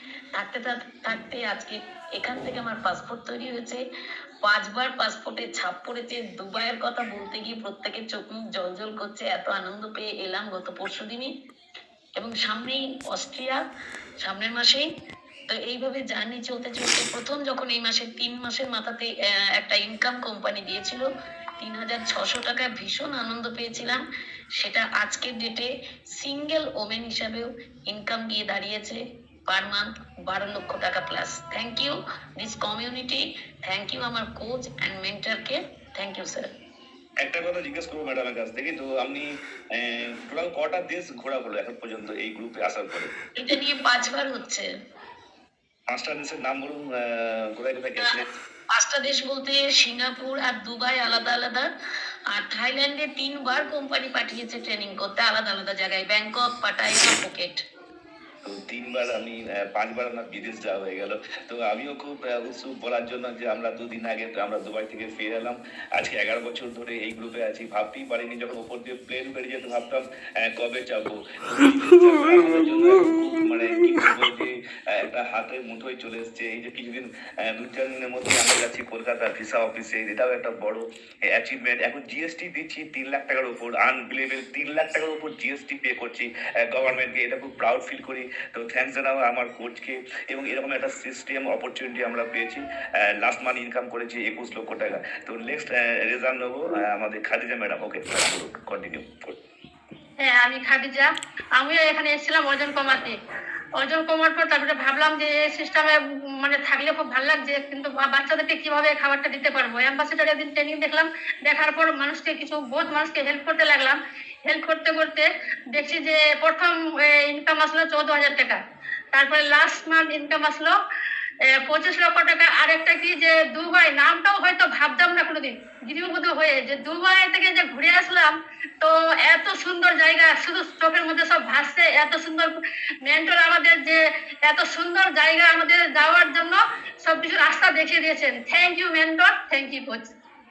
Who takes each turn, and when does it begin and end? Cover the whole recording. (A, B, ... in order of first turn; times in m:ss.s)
0:00.3-0:03.8 A
0:04.4-0:11.3 A
0:12.2-0:13.6 A
0:14.2-0:14.8 A
0:15.5-0:21.1 A
0:21.6-0:24.0 A
0:24.6-0:36.5 A
0:37.2-0:43.1 B
0:43.4-0:44.7 A
0:45.9-0:48.2 B
0:48.7-0:51.7 A
0:52.3-0:57.6 A
0:58.4-1:39.4 B
1:40.2-1:43.2 C
1:43.8-1:58.6 C
1:59.1-2:00.8 C
2:01.4-2:20.1 C